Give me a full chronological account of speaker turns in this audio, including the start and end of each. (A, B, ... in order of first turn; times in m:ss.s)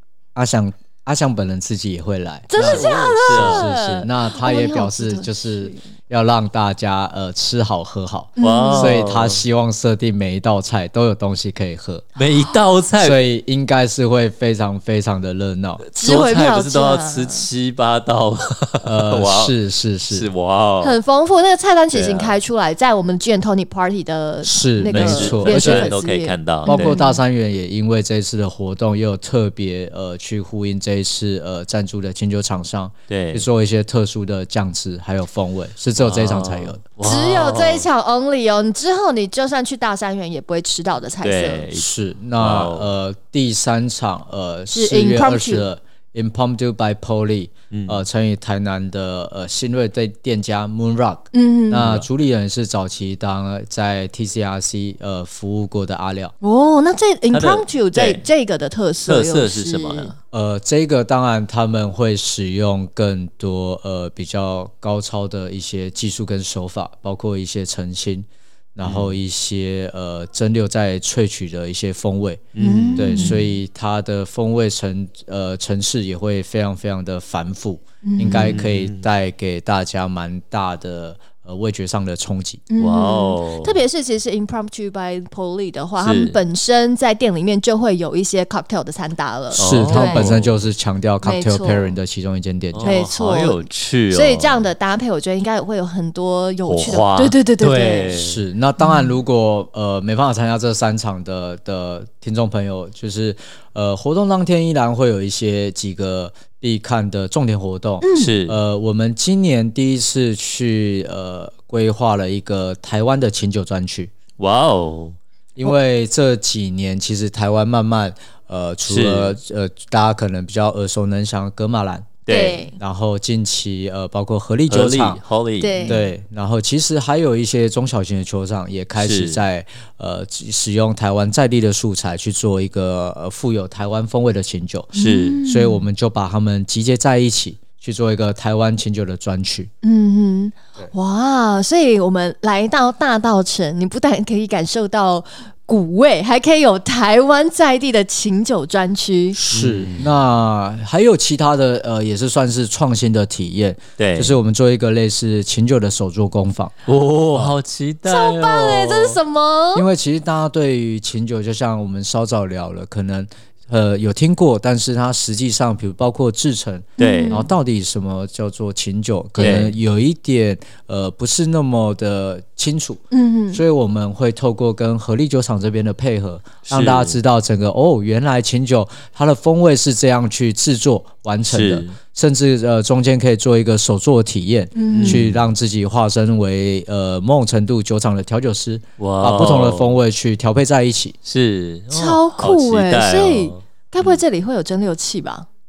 0:00.4-0:12.1 A
0:02.5-0:05.8 B
0:02.6-0:03.7 C
0:08.4-0:09.0 B
0:08.4-0:09.4 C
0:12.2-0:13.2 C
0:12.2-0:12.6 B
0:13.0-0:15.8 A
0:15.9-0:19.5 C
0:16.0-0:17.5 B
0:18.8-0:20.3 A
0:20.1-0:21.0 C
0:20.8-0:27.2 B
0:21.9-0:22.4 C
0:24.4-0:25.9 A
0:24.9-0:27.0 C
0:26.7-0:36.8 A
0:33.1-0:33.5 C
0:36.0-0:37.9 C
0:37.0-0:41.7 B
0:41.2-0:42.9 C
0:41.7-0:56.3 A
0:44.7-0:45.7 B
0:47.7-0:48.0 C
0:51.3-0:51.9 B
0:51.7-0:52.1 C
0:56.4-1:00.1 B
0:57.3-0:58.2 C
0:59.1-1:00.2 C
1:00.3-1:12.5 A
1:08.8-1:09.2 C
1:12.5-1:13.6 C
1:12.6-1:13.4 B
1:13.0-1:22.6 A
1:18.0-1:18.6 B
1:18.2-1:19.0 C
1:22.7-1:30.3 B
1:22.8-1:23.8 C
1:26.0-1:26.4 C
1:29.5-1:30.5 C
1:29.6-1:33.0 A
1:31.2-1:31.9 B
1:32.7-1:34.7 C
1:32.8-1:38.2 B
1:36.7-1:38.4 C
1:38.2-1:54.1 A
1:38.8-1:39.2 B
1:48.0-1:48.3 B
1:48.1-1:48.6 C
1:54.4-1:55.2 C
1:55.6-2:02.2 A
1:58.9-1:59.4 C
2:02.3-2:02.6 C
2:02.3-2:02.8 B
2:02.8-2:05.2 A
2:04.7-2:06.0 C
2:05.6-2:06.0 B
2:05.8-2:14.9 A
2:09.0-2:09.4 C
2:14.9-2:15.4 C
2:14.9-2:15.9 B
2:15.4-2:19.7 A
2:19.8-2:29.4 B
2:29.4-2:36.7 A
2:29.4-2:30.1 C
2:34.0-2:34.4 C
2:36.9-2:39.2 C
2:38.0-2:39.9 B
2:39.8-3:11.2 A
2:47.0-2:47.4 C
2:47.0-2:47.5 B
2:49.4-2:49.7 B
2:49.4-2:49.8 C
2:53.1-2:53.6 B
2:56.7-2:57.2 C
3:01.5-3:02.0 C
3:04.8-3:05.3 B
3:04.9-3:05.5 C
3:09.0-3:10.0 C
3:11.2-3:14.2 C
3:11.9-3:15.5 B